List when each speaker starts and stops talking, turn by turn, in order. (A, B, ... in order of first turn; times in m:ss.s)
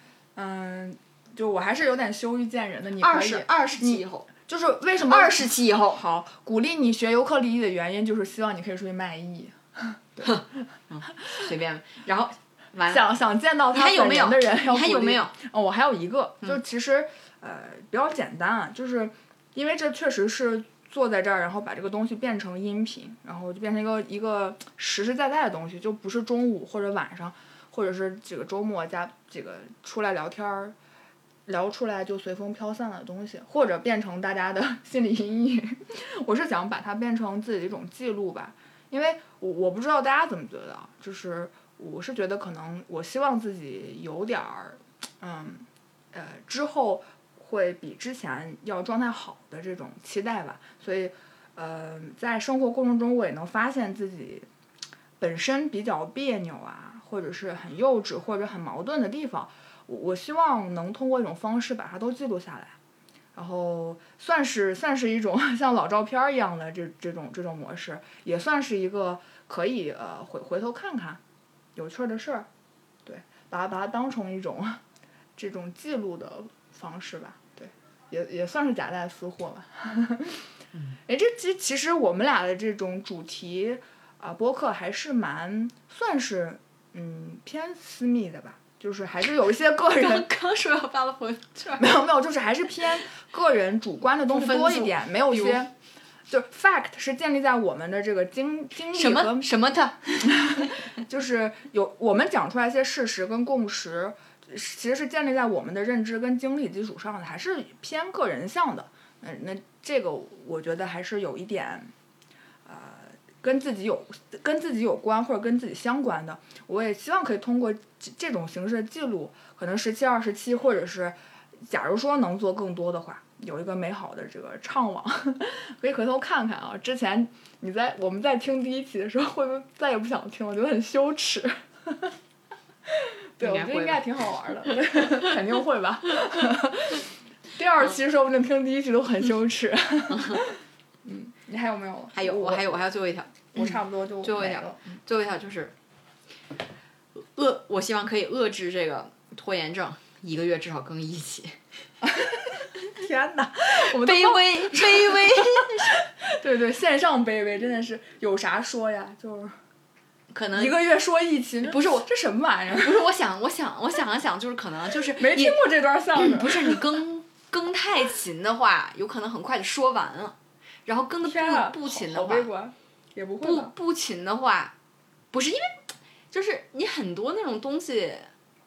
0:00.4-0:10.3 A
0:03.0-0:04.3 B
0:05.0-0:06.0 B
0:10.2-0:13.1 B
0:12.9-0:30.8 A
0:13.7-0:15.3 B
0:31.5-0:54.5 A
0:55.2-1:02.8 A
1:03.4-1:11.2 A
1:11.8-1:12.5 A
1:13.0-1:14.8 A
1:15.4-1:20.5 A
1:21.1-1:30.3 A
1:29.9-1:32.0 B
1:31.8-1:35.7 A
1:34.3-1:35.6 B
1:36.3-1:39.5 A
1:38.9-1:40.8 B
1:40.2-1:51.9 A
1:52.6-2:12.2 A
2:12.9-2:22.8 A
2:13.4-2:14.0 B
2:22.2-2:23.7 B
2:23.5-2:25.0 A
2:24.2-2:25.7 B
2:27.2-2:31.6 B
2:32.0-2:39.6 A
2:33.8-2:36.0 B
2:40.3-2:40.8 B
2:40.6-2:43.1 A
2:41.6-2:42.1 B
2:42.7-2:45.6 B
2:45.0-2:47.0 A
2:46.2-2:50.4 B
2:50.9-2:52.5 B
2:51.2-2:53.7 A
2:53.4-2:54.7 B
2:55.3-2:55.8 B
2:56.3-2:58.3 B